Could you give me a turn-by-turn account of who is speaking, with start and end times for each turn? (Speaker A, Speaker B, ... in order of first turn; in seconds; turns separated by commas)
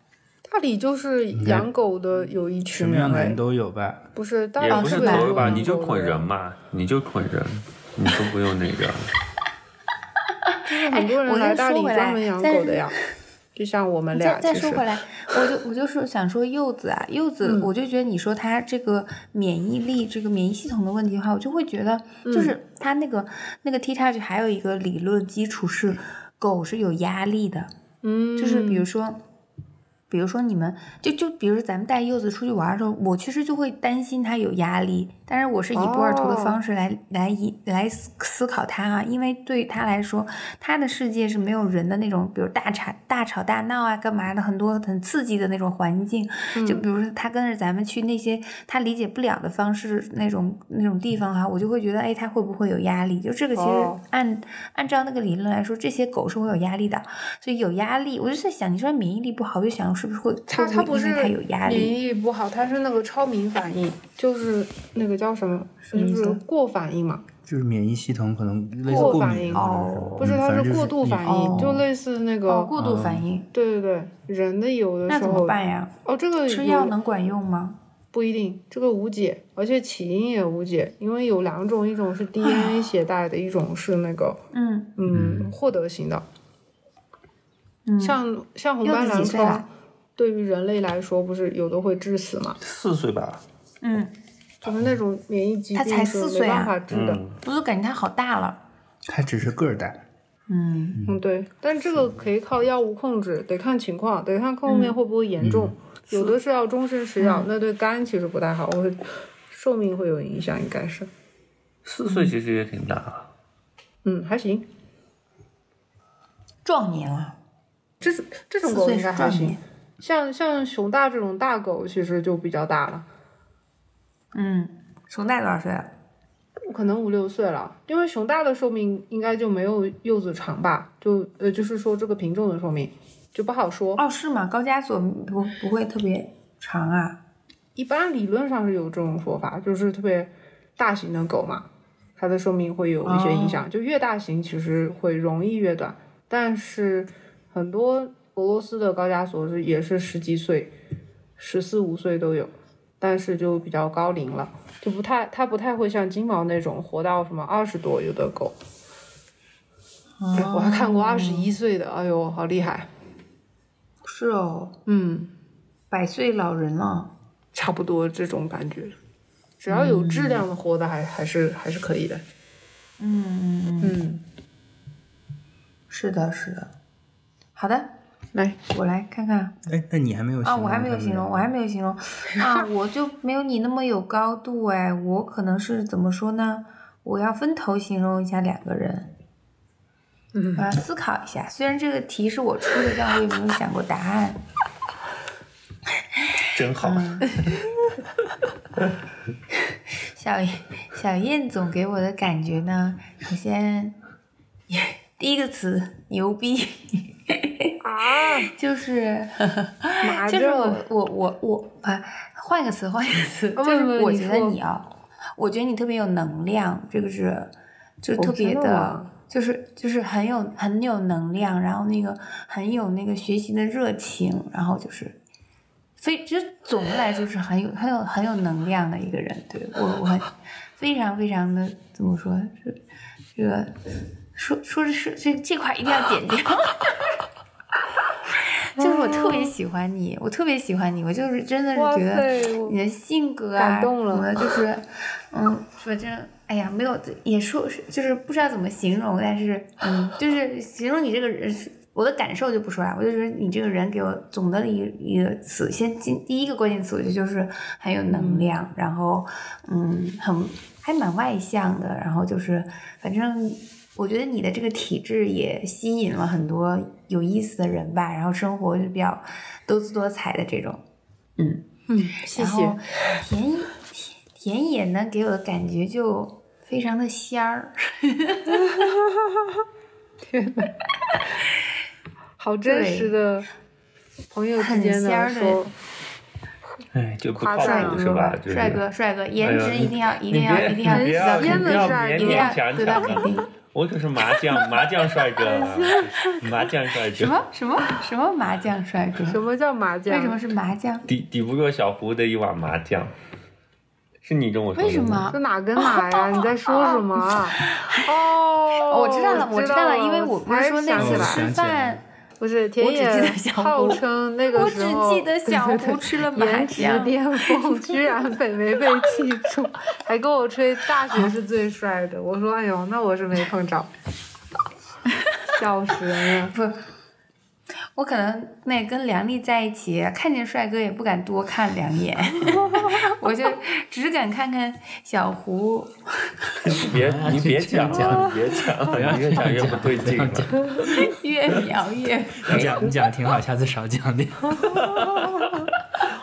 Speaker A: 0.5-3.4, Speaker B: 1.3-1.7, Speaker B: 2.7-4.0, Speaker A: 4.2-6.3, Speaker C: 4.6-9.1, Speaker D: 4.7-5.7, Speaker D: 10.5-13.0, Speaker A: 10.7-13.0, Speaker A: 13.6-15.4, Speaker D: 14.1-27.7, Speaker A: 17.4-17.7, Speaker A: 22.2-22.5, Speaker A: 28.0-28.9, Speaker D: 28.4-29.2, Speaker D: 30.1-62.0, Speaker A: 35.7-36.6, Speaker A: 46.5-46.9, Speaker A: 53.5-54.0, Speaker A: 60.5-67.2, Speaker D: 65.9-66.4, Speaker B: 67.5-71.7, Speaker D: 68.9-70.3, Speaker A: 68.9-72.7, Speaker D: 71.2-71.9, Speaker D: 72.5-73.5, Speaker B: 72.8-73.3, Speaker A: 73.5-77.0, Speaker D: 75.1-75.9, Speaker D: 76.5-77.8, Speaker A: 78.1-84.4, Speaker D: 82.4-82.9, Speaker D: 84.5-85.0, Speaker A: 85.0-86.2, Speaker B: 85.1-85.5, Speaker D: 87.9-88.2, Speaker A: 88.0-92.6, Speaker D: 88.8-89.7, Speaker C: 92.6-93.4, Speaker D: 93.8-94.1, Speaker A: 94.6-97.2, Speaker D: 95.7-96.8, Speaker C: 96.9-97.4, Speaker D: 97.4-98.6, Speaker B: 99.1-100.0, Speaker D: 100.5-101.0, Speaker A: 101.1-111.1, Speaker D: 104.7-105.0, Speaker B: 105.4-105.7, Speaker D: 107.2-107.5, Speaker C: 111.8-113.3, Speaker A: 114.0-114.7, Speaker D: 116.7-117.4, Speaker A: 118.0-123.1, Speaker D: 118.6-119.6, Speaker D: 124.3-125.9, Speaker A: 126.7-134.0, Speaker D: 134.0-137.2, Speaker A: 137.8-141.7, Speaker A: 142.2-150.7, Speaker D: 143.0-143.6, Speaker A: 151.4-158.6, Speaker D: 160.2-161.5, Speaker A: 160.3-162.9, Speaker D: 164.1-164.8, Speaker A: 164.9-165.3, Speaker D: 165.9-167.1, Speaker A: 167.5-168.9, Speaker A: 169.6-172.2, Speaker D: 169.7-170.5, Speaker D: 173.0-174.0, Speaker A: 173.8-174.2, Speaker D: 175.9-176.7, Speaker D: 177.6-177.9, Speaker D: 178.7-179.6, Speaker B: 179.7-181.5, Speaker D: 180.4-189.1, Speaker A: 190.3-190.6, Speaker D: 190.6-194.4, Speaker D: 196.2-197.3, Speaker C: 196.5-197.6, Speaker D: 199.7-204.0, Speaker D: 204.7-225.2, Speaker A: 207.8-208.5, Speaker A: 210.0-210.8, Speaker A: 213.6-214.6, Speaker A: 218.2-219.1, Speaker D: 226.0-232.8, Speaker D: 233.3-233.8, Speaker D: 234.3-237.2, Speaker D: 238.3-270.8, Speaker A: 239.0-239.5, Speaker A: 241.8-242.8, Speaker A: 243.6-244.4, Speaker A: 258.1-258.5, Speaker D: 271.4-271.7, Speaker A: 271.9-272.8, Speaker D: 272.2-278.7, Speaker A: 278.6-279.3, Speaker A: 280.2-280.7, Speaker A: 282.4-283.5, Speaker D: 282.6-283.1, Speaker A: 284.3-285.7, Speaker D: 284.6-285.7, Speaker C: 286.9-288.8, Speaker A: 287.4-288.1, Speaker D: 287.6-293.5, Speaker C: 289.4-297.4, Speaker A: 290.9-293.4, Speaker A: 295.4-296.5, Speaker D: 297.1-299.4, Speaker A: 299.3-300.4, Speaker D: 300.1-301.1, Speaker C: 301.1-303.1, Speaker C: 304.2-305.3, Speaker D: 304.8-308.2, Speaker A: 305.3-311.5, Speaker D: 308.7-312.0, Speaker B: 310.9-312.0, Speaker A: 312.4-323.9, Speaker D: 312.8-314.0, Speaker D: 314.5-318.1, Speaker A: 325.5-326.5, Speaker D: 326.5-326.8, Speaker D: 327.9-336.3, Speaker A: 332.6-333.1, Speaker C: 336.6-340.7, Speaker B: 336.8-341.1, Speaker D: 340.8-342.9, Speaker B: 342.4-345.1